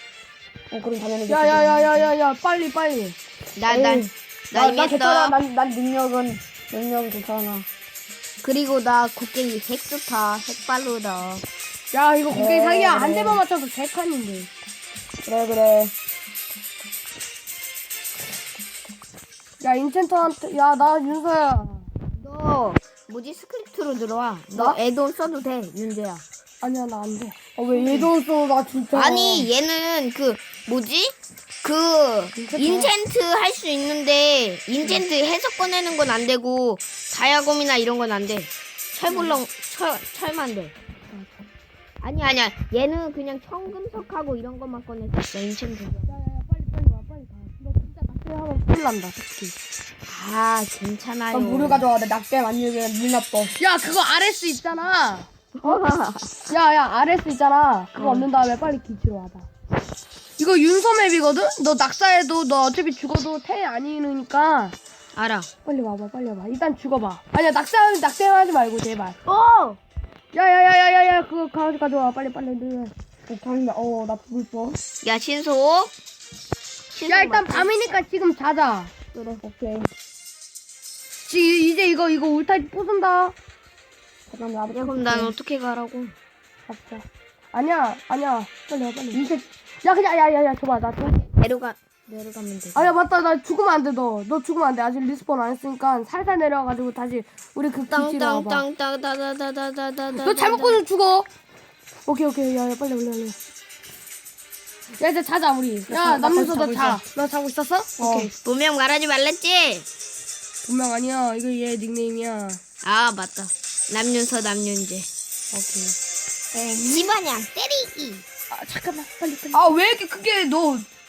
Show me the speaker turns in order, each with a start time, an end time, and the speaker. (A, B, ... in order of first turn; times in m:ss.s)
0:00.7-0:02.1 A
0:01.3-0:03.2 B
0:03.6-0:05.4 C
0:03.7-0:07.7 A
0:08.4-0:11.4 C
0:11.9-0:14.5 B
0:12.3-0:13.4 A
0:15.2-0:15.9 A
0:19.6-0:21.9 B
0:22.1-0:26.2 C
0:24.5-0:24.8 B
0:26.6-0:28.0 B
0:27.6-0:29.5 A
0:28.9-0:40.7 C
0:32.3-0:32.9 B
0:39.1-0:39.4 B
0:41.1-0:41.5 B
0:42.0-0:46.1 C
0:46.1-0:49.5 B
0:50.1-0:51.8 C
0:51.3-0:53.5 A
0:53.5-0:55.8 B
0:55.5-0:56.4 C
0:56.4-0:59.5 B
0:57.9-0:58.3 C
1:00.4-1:04.8 B
1:05.2-1:05.5 C
1:05.6-1:09.2 B
1:09.2-1:09.8 C
1:10.3-1:12.9 B
1:13.3-1:14.8 A
1:15.0-1:15.9 C
1:16.9-1:17.7 C
1:17.1-1:18.9 B
1:19.1-1:19.4 C
1:19.4-1:19.9 A
1:21.2-1:23.3 B
1:24.3-1:25.3 A
1:24.7-1:26.1 C
1:26.7-1:29.2 B
1:29.1-1:29.5 A
1:29.8-1:31.3 B
1:31.2-1:32.9 C
1:32.7-1:38.6 B
1:37.9-1:40.8 C
1:40.1-1:41.3 B
1:42.1-1:43.4 B
1:45.0-1:48.3 B
1:45.9-1:47.0 A
1:48.0-1:48.3 A
1:48.4-1:49.8 C
1:50.6-1:52.6 B
1:52.8-1:55.1 C
1:55.5-1:56.0 B
1:56.5-1:57.1 A
1:56.7-1:58.2 C
1:58.5-1:59.7 B
1:59.5-2:00.9 A